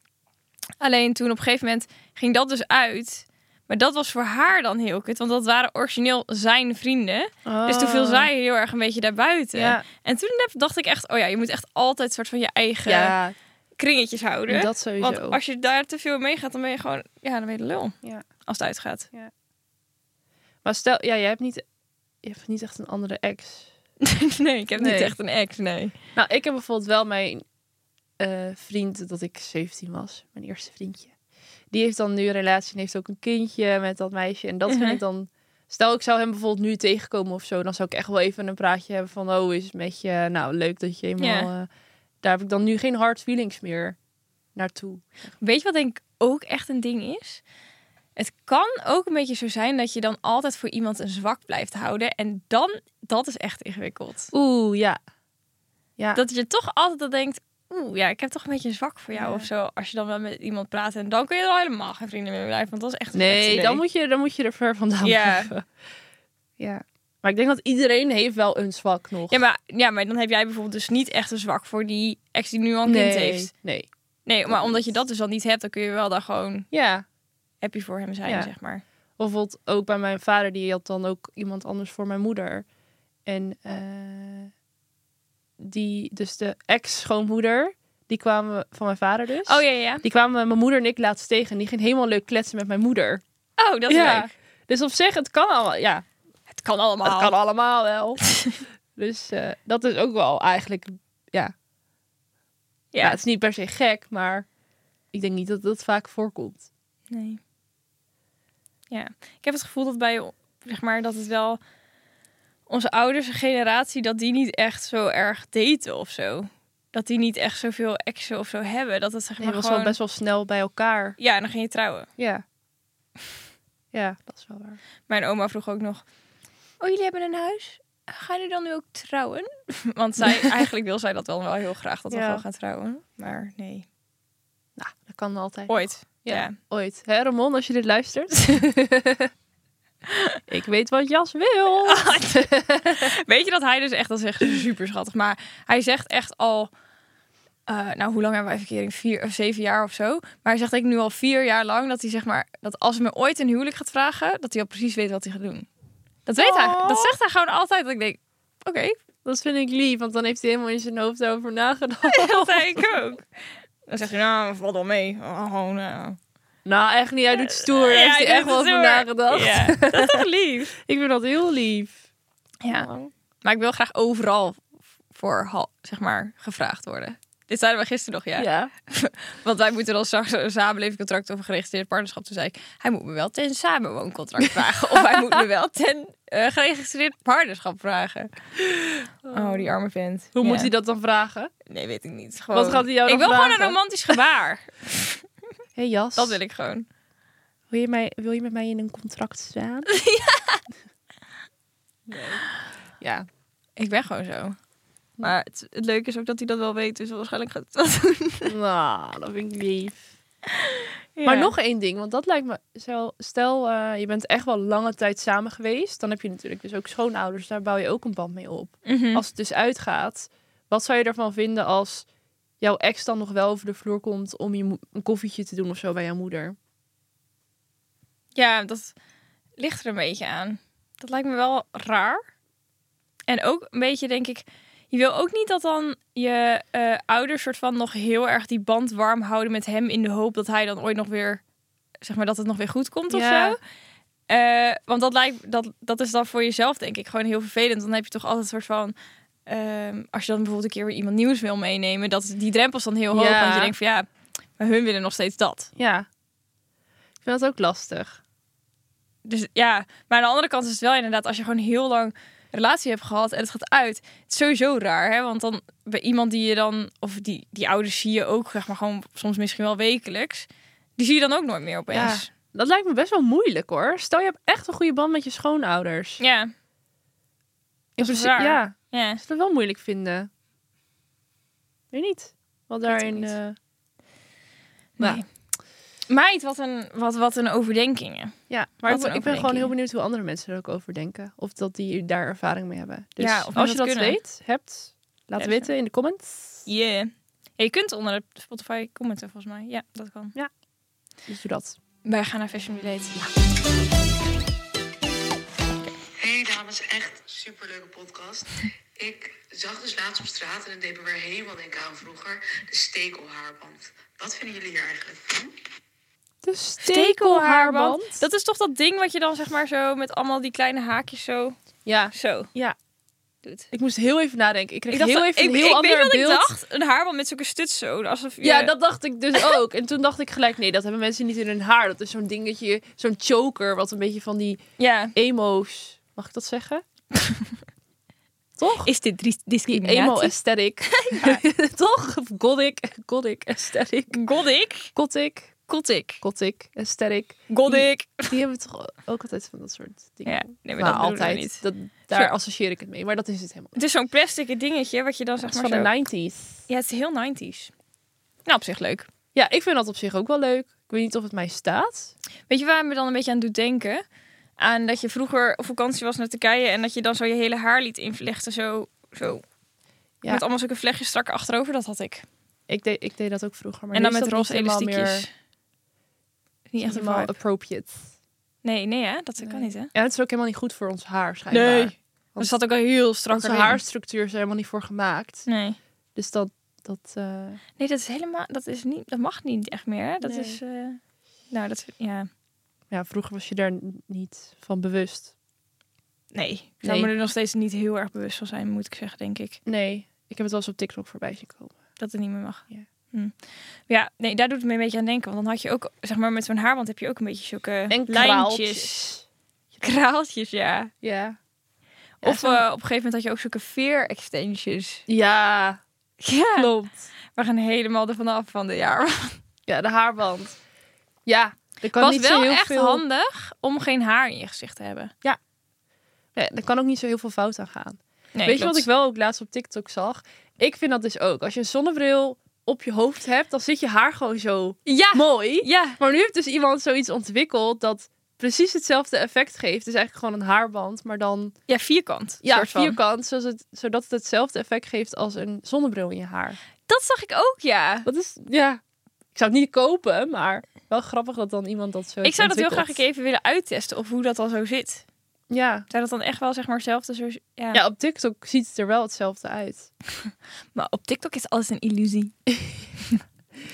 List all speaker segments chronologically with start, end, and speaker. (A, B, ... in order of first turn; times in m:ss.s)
0:00.8-0:13.1 A
0:07.4-0:08.3 B
0:09.5-0:09.8 B
0:12.8-0:13.3 B
0:13.8-0:19.1 A
0:14.5-0:15.4 B
0:20.6-0:21.6 B
0:22.2-0:23.7 B
0:24.0-0:25.9 A
0:24.8-0:25.1 B
0:26.1-0:27.4 B
0:28.2-0:31.1 B
0:31.7-0:41.7 B
0:34.7-0:35.0 A
0:41.2-0:41.5 A
0:42.2-0:44.0 B
0:44.5-0:45.3 B
0:45.4-0:47.4 A
0:48.2-0:54.3 A
0:54.3-0:55.0 B
0:56.1-1:03.8 A
0:59.1-0:59.5 B
1:03.1-1:05.7 B
1:05.0-1:05.5 A
1:06.6-1:09.4 B
1:09.3-1:13.5 A
1:12.8-1:13.9 B
1:14.2-1:16.7 A
1:14.5-1:14.9 B
1:16.7-1:17.0 B
1:17.6-1:18.8 A
1:18.2-1:18.5 B
1:19.2-1:22.6 B
1:23.2-1:24.5 B
1:25.6-1:33.2 B
1:29.4-1:30.0 A
1:33.6-1:34.3 A
1:33.9-1:36.0 B
1:36.5-1:37.3 A
1:37.0-1:38.2 B
1:38.3-1:38.6 A
1:38.9-1:41.5 B
1:42.9-1:43.2 A
1:43.0-1:44.5 B
1:45.1-1:46.7 B
1:47.1-1:47.4 A
1:48.9-1:51.6 A
1:52.7-2:00.0 A
1:59.4-2:01.2 B
2:01.2-2:02.1 A
2:02.2-2:02.4 B
2:03.9-2:04.8 B
2:05.1-2:06.0 A
2:06.8-2:13.9 A
2:10.2-2:10.5 B
2:12.1-2:12.4 B
2:14.8-2:19.3 B
2:15.7-2:16.6 A
2:20.1-2:20.4 A
2:20.5-2:23.1 B
2:21.8-2:26.7 A
2:27.7-2:35.7 A
2:36.2-2:38.9 A
2:36.4-2:37.1 B
2:39.2-2:42.9 B
2:42.0-2:43.2 A
2:43.8-2:46.2 A
2:46.6-2:52.0 B
2:47.3-2:50.7 A
2:52.6-2:52.9 A
2:52.7-2:53.1 B
2:53.4-3:08.3 A
2:58.4-2:58.7 B
3:09.2-3:09.7 B
3:09.3-3:10.7 A
3:10.3-3:11.5 B
3:11.7-3:15.2 A
3:12.5-3:13.8 B
3:15.8-3:16.4 B
3:16.2-3:16.8 A
3:17.7-3:19.9 B
3:19.9-3:20.6 A
3:22.1-3:22.4 B
3:23.0-3:23.2 B
3:23.8-3:24.6 A
3:25.2-3:28.5 A
3:28.4-3:30.1 B
3:30.6-3:31.5 A
3:31.2-3:42.0 B
3:38.8-3:39.2 A
3:42.6-3:46.6 B
3:48.4-3:48.9 A
3:49.6-3:52.2 A
3:53.3-4:01.4 A
4:02.0-4:03.6 A
4:03.1-4:03.6 B
4:04.3-4:08.9 A
4:09.4-4:14.1 A
4:13.1-4:13.7 B
4:14.6-4:15.7 A
4:15.8-4:16.1 B
4:17.2-4:18.2 B
4:19.2-4:32.3 A
4:31.9-4:36.2 B
4:36.2-4:36.5 A
4:38.0-4:39.2 A
4:38.0-4:40.3 B
4:41.9-4:43.6 B
4:42.9-4:43.3 A
4:45.0-4:45.2 A
4:46.1-4:49.7 A
4:48.5-4:56.6 B
4:53.2-4:54.2 A
4:55.4-4:55.7 A
4:56.6-5:00.3 A
5:01.3-5:01.8 B
5:02.0-5:03.2 A
5:06.2-5:15.5 C
5:16.4-5:18.2 B
5:16.8-5:21.6 A
5:21.8-5:22.8 B
5:22.1-5:22.5 A
5:23.4-5:23.7 A
5:23.7-5:26.5 B
5:24.9-5:28.7 A
5:28.4-5:34.6 B
5:34.8-5:35.1 A
5:35.1-5:36.8 B
5:38.6-5:38.9 B
5:38.8-5:40.3 A
5:39.7-5:44.2 B
5:40.9-5:41.4 A
5:44.1-5:44.9 A
5:44.9-5:45.6 B
5:45.7-5:46.2 A
5:46.2-5:53.8 B
5:47.5-5:48.3 A
5:50.2-5:52.3 A
5:53.7-5:55.9 A
5:55.4-5:56.6 B
5:56.7-5:57.7 A
5:58.4-5:59.1 A
5:59.3-6:02.1 B
6:02.5-6:04.0 A
6:04.6-6:09.4 A
6:10.3-6:12.2 A
6:12.7-6:15.2 B
6:13.9-6:15.3 A
6:16.7-6:17.3 A
6:16.8-6:18.1 B
6:18.6-6:19.9 A
6:19.4-6:22.6 B
6:21.5-6:23.8 A
6:23.3-6:25.4 B
6:25.4-6:25.8 A
6:26.2-6:27.6 B
6:27.8-6:31.0 A
6:30.2-6:30.6 B
6:31.5-6:32.3 A
6:32.9-6:35.3 B
6:36.3-6:39.6 A
6:36.8-6:37.1 B
6:39.6-6:41.8 B
6:42.0-6:43.3 A
6:43.9-6:49.0 A
6:47.9-6:49.2 B
6:49.8-6:50.9 A
6:51.0-6:51.4 B
6:52.2-6:52.6 B
6:52.2-6:55.0 A
6:55.1-6:55.8 B
6:56.2-6:56.7 A
6:56.5-6:57.0 B
6:57.3-6:59.4 A
6:59.7-7:00.6 B
7:01.2-7:03.0 B
7:02.0-7:05.1 A
7:06.3-7:21.5 B
7:08.3-7:08.9 A
7:14.8-7:16.0 A
7:21.7-7:23.0 A
7:22.4-7:26.6 B
7:26.9-7:28.1 A
7:28.0-7:28.8 B
7:29.3-7:33.0 B
7:32.2-7:35.0 A
7:35.5-7:35.9 B
7:35.9-7:37.8 A
7:37.7-7:39.9 B
7:40.2-7:42.3 A